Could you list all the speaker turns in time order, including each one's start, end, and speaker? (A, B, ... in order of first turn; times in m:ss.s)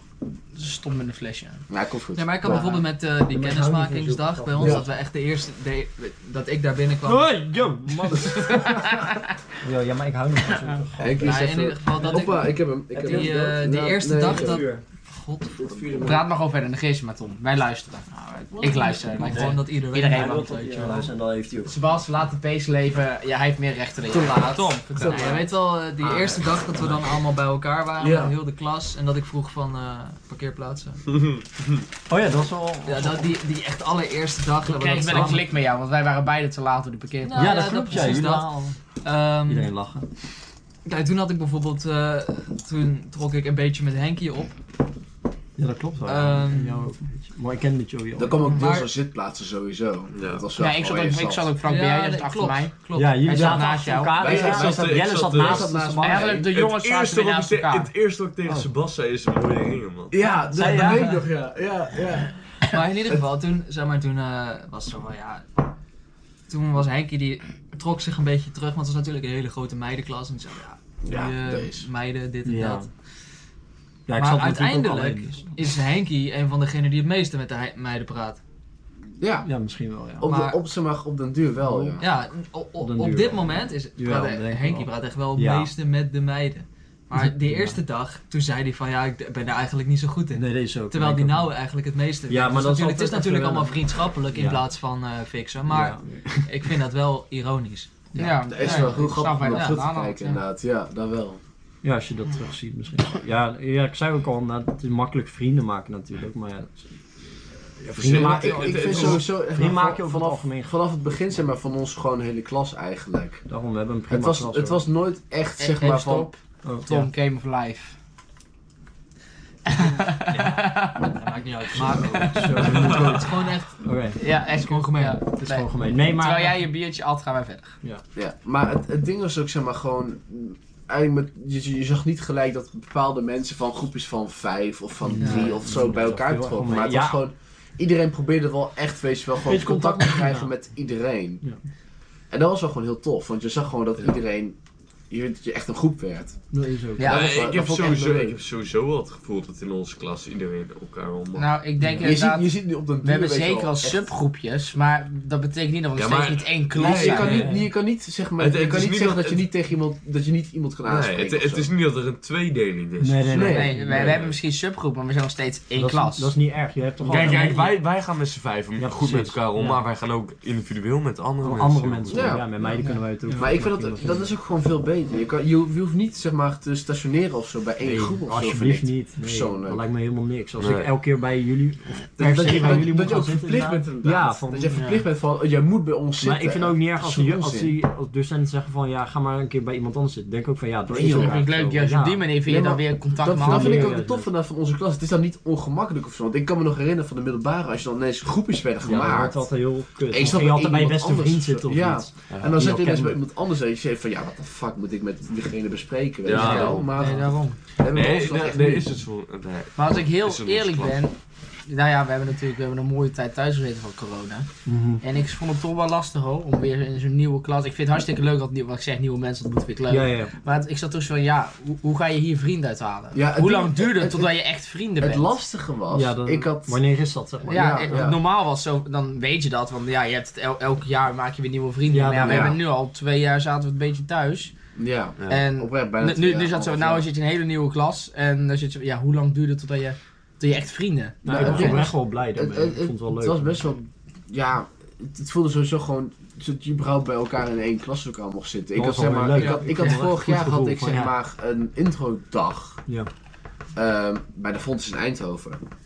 0:00.5-0:01.6 A
0:01.7-0:02.7 B
0:02.1-0:07.4 C
0:03.3-0:04.9 D
0:04.6-0:04.8 B
0:07.0-0:09.0 D
0:08.2-0:09.3 A
0:09.6-0:11.4 D
0:11.0-0:14.7 B
0:11.2-0:16.1 C
0:12.9-0:13.6 D
0:14.2-0:14.8 D
0:15.6-0:16.3 B
0:16.0-0:18.1 A
0:18.1-0:21.1 C
0:18.6-0:20.9 A
0:19.2-0:21.8 D
0:21.6-0:25.6 A
0:24.1-0:24.4 B
0:24.5-0:31.0 C
0:24.9-0:25.4 B
0:28.0-0:28.4 B
0:31.1-0:31.4 E
0:32.1-0:33.3 D
0:32.8-0:35.4 C
0:34.6-0:38.2 A
0:35.1-0:35.4 D
0:37.2-0:39.7 C
0:37.4-0:38.8 D
0:39.5-0:40.1 D
0:40.8-0:44.6 C
0:45.6-0:48.4 D
0:46.0-0:46.9 C
0:48.2-0:51.5 B
0:48.5-0:48.9 C
0:50.1-0:50.4 E
0:50.6-0:54.5 A
0:51.6-0:53.7 C
0:52.9-0:56.3 D
0:54.1-0:56.5 B
0:54.2-0:55.8 E
0:56.0-0:57.9 A
0:56.5-1:00.1 E
1:00.1-1:02.4 B
1:00.5-1:01.2 D
1:00.6-1:01.1 C
1:02.7-1:05.6 C
1:06.5-1:12.9 C
1:11.0-1:11.9 B
1:12.4-1:12.9 D
1:14.1-1:15.4 D
1:14.2-1:18.4 C
1:19.2-1:19.5 B
1:19.4-1:20.3 D
1:20.2-1:22.0 B
1:20.2-1:20.6 C
1:21.6-1:22.0 D
1:22.0-1:40.4 C
1:22.8-1:25.7 D
1:27.1-1:27.8 D
1:30.3-1:31.5 D
1:32.3-1:34.6 D
1:35.7-1:36.5 D
1:38.1-1:40.4 A
1:38.4-1:41.4 B
1:41.8-1:46.9 D
1:47.8-1:50.7 D
1:47.9-1:49.3 E
1:48.0-1:53.4 B
1:48.8-1:49.1 C
1:53.5-1:54.8 D
1:54.1-1:56.3 B
1:55.6-1:58.0 A
1:56.6-1:57.1 D
1:59.6-2:01.2 A
1:59.8-2:05.2 C
2:01.7-2:04.2 D
2:02.0-2:02.7 A
2:02.8-2:03.1 E
2:04.2-2:07.8 A
2:05.4-2:06.6 D
2:08.1-2:21.4 B
2:15.0-2:17.2 D
2:15.2-2:15.5 A
2:19.4-2:20.5 D
2:22.3-2:24.6 B
2:25.1-2:26.4 B
2:26.5-2:27.2 D
2:27.0-2:27.5 A
2:27.0-2:28.4 B
2:27.0-2:31.5 E
2:31.4-2:37.5 A
2:31.8-2:32.1 D
2:32.0-2:34.1 B
2:35.9-2:37.5 E
2:36.8-2:41.7 B
2:37.1-2:37.6 D
2:38.4-2:39.4 E
2:40.8-2:44.4 E
2:43.0-2:44.1 D
2:43.3-2:43.7 B
2:43.3-2:46.3 A
2:45.7-2:47.8 D
2:47.1-2:52.5 E
2:48.8-2:49.8 D
2:51.4-2:54.3 D
2:52.1-2:52.8 B
2:53.3-2:59.8 B
2:57.8-3:04.8 D
3:00.6-3:00.9 E
3:02.2-3:07.7 B
3:04.7-3:05.0 A
3:06.2-3:12.3 D
3:10.9-3:11.6 B
3:10.9-3:14.0 A
3:12.4-3:19.5 B
3:13.2-3:14.3 D
3:18.8-3:23.2 D
3:20.1-3:28.9 B
3:22.3-3:22.7 E
3:26.2-3:26.9 E
3:26.4-3:27.6 A
3:27.9-3:31.0 E
3:29.8-3:34.5 A
3:34.6-3:35.0 D
3:35.0-3:45.4 A
3:39.9-3:40.3 D
3:43.1-3:44.3 B
3:45.0-3:46.8 B
3:45.9-3:48.1 D
3:47.5-3:48.2 B
3:47.5-3:54.6 A
3:51.9-3:52.6 D
3:52.2-3:52.6 B
3:54.8-3:57.1 B
3:55.3-4:01.9 A
4:01.2-4:03.6 D
4:01.2-4:12.8 B
4:08.7-4:11.1 D
4:09.4-4:09.7 C
4:13.7-4:15.6 B